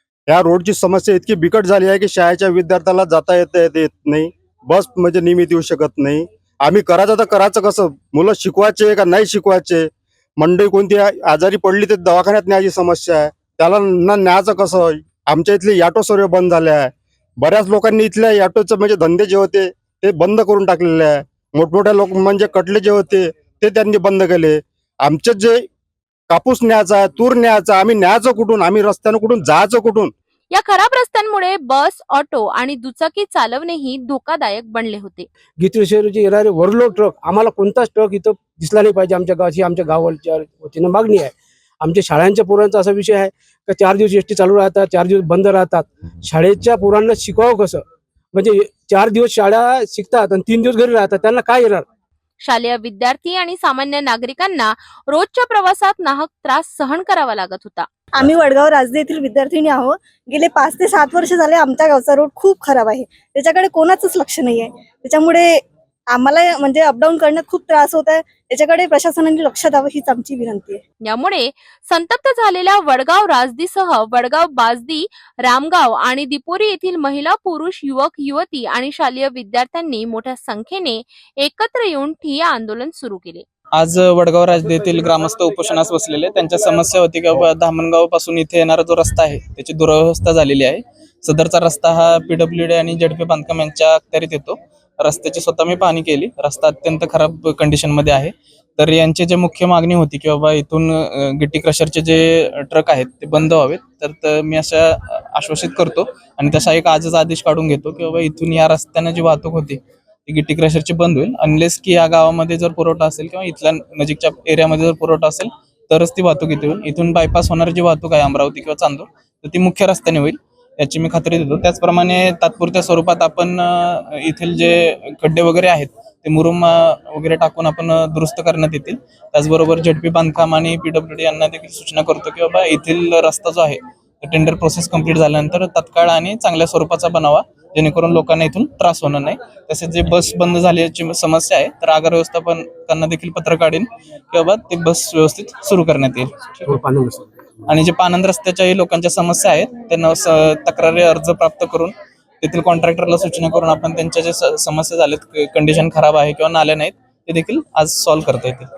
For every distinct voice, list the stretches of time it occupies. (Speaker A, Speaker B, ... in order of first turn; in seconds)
Speaker A: 0.3-25.7, 26.3-30.1
Speaker B: 30.5-35.3, 52.4-57.9, 71.1-83.5
Speaker C: 35.6-51.9, 146.7-147.3
Speaker D: 58.1-70.8
Speaker E: 83.7-146.8, 147.7-158.7